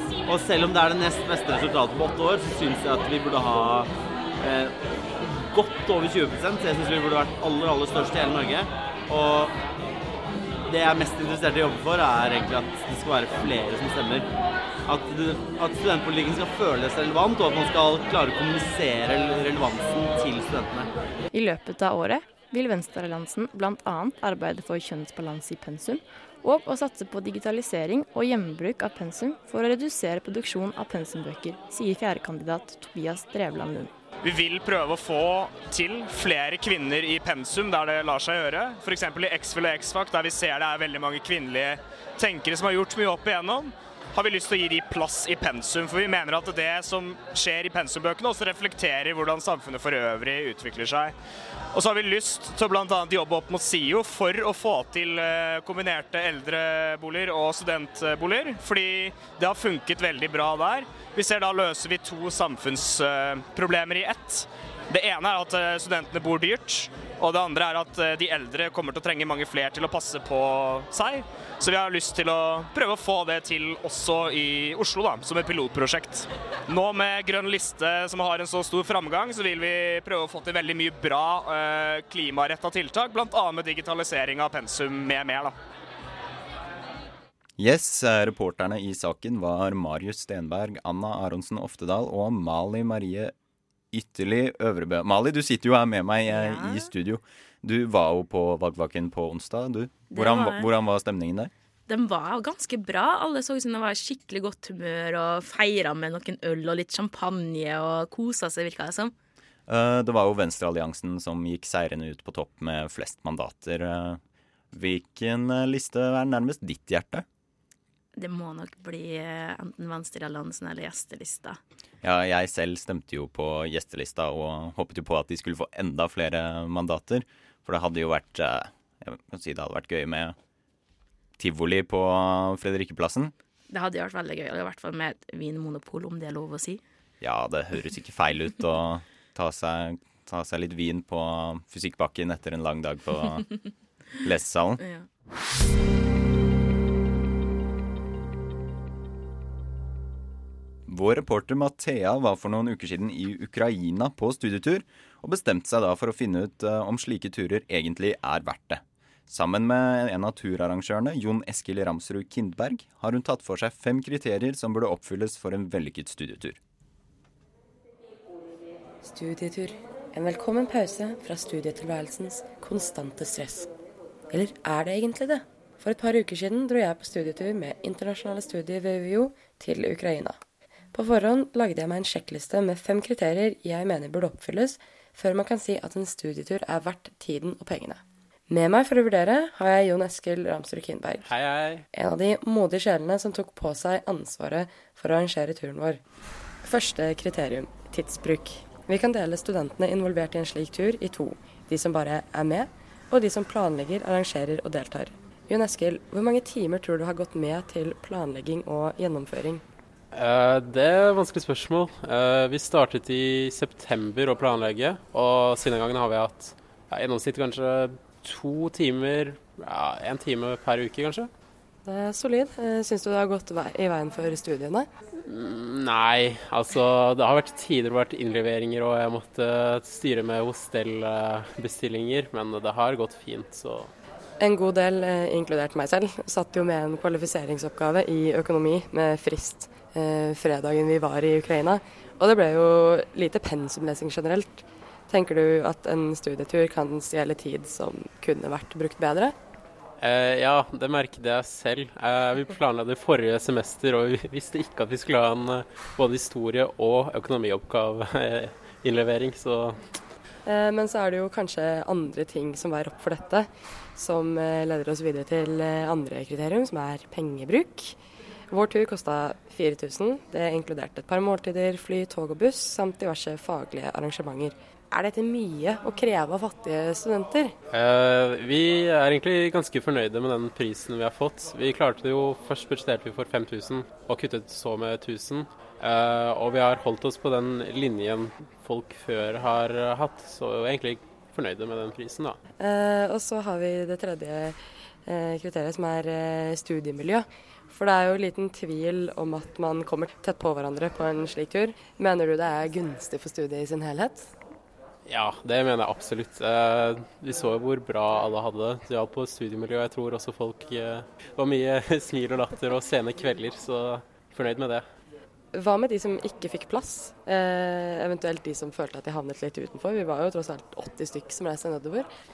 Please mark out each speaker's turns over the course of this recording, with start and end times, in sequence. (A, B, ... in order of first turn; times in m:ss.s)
0:00.3-0:09.5 A
0:10.7-0:14.3 A
0:14.9-0:20.9 A
0:21.3-0:33.9 B
0:34.2-0:51.1 C
0:51.7-1:25.6 C
1:27.6-1:33.3 D
1:33.9-1:41.5 D
1:36.3-1:36.9 E
1:40.1-1:40.7 E
1:41.9-1:49.1 E
1:49.7-1:54.2 D
1:54.7-1:57.2 D
1:58.2-2:01.6 E
2:02.0-2:10.4 D
2:11.4-2:13.3 D
2:13.7-2:16.8 E
2:17.2-2:23.5 D
2:24.2-2:24.8 D
2:24.8-2:25.0 E
2:30.9-2:46.6 D
2:49.0-2:53.7 F
2:54.3-3:00.4 F
3:00.9-3:11.3 F
3:11.2-3:11.9 G
3:11.9-3:16.0 F
3:16.6-3:29.6 F
3:30.1-3:41.3 G
3:41.8-3:44.9 F
3:45.2-3:53.9 G
3:54.4-4:09.4 F
4:10.0-4:19.8 G
4:20.4-4:28.0 F
4:28.5-4:37.5 F
4:37.7-4:52.4 G
4:52.6-5:04.3 F
5:05.0-5:14.8 G
5:15.5-5:22.1 F